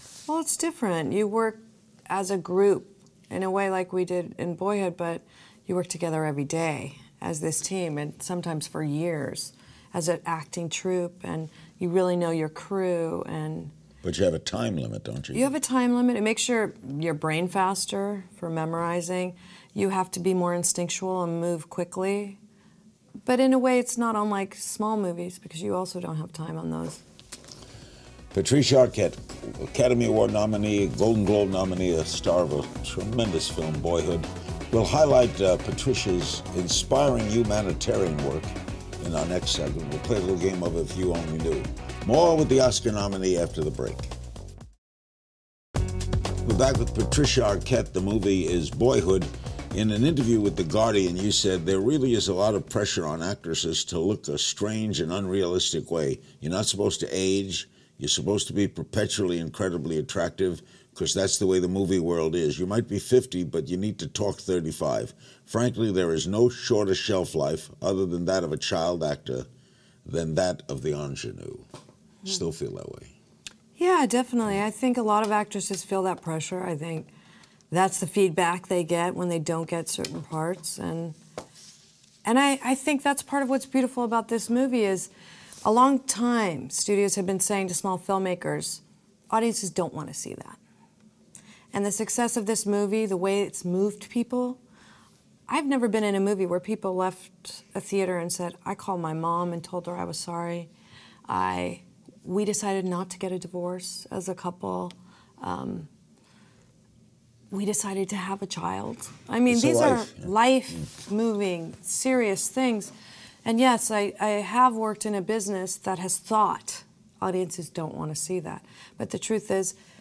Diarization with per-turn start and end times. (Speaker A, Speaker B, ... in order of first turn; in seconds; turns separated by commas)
Speaker A: 0.3-13.7, Speaker B: 14.0-15.5, Speaker A: 15.3-22.4, Speaker A: 23.2-27.0, Speaker B: 28.3-44.1, Speaker B: 46.4-69.5, Speaker B: 70.0-71.7, Speaker B: 72.2-73.1, Speaker A: 73.8-77.1, Speaker A: 77.7-81.2, Speaker A: 82.2-85.1, Speaker A: 85.6-90.6, Speaker A: 91.7-94.6, Speaker A: 95.5-100.7, Speaker A: 101.3-105.9, Speaker A: 107.5-112.9, Speaker B: 109.5-110.3, Speaker A: 113.5-119.7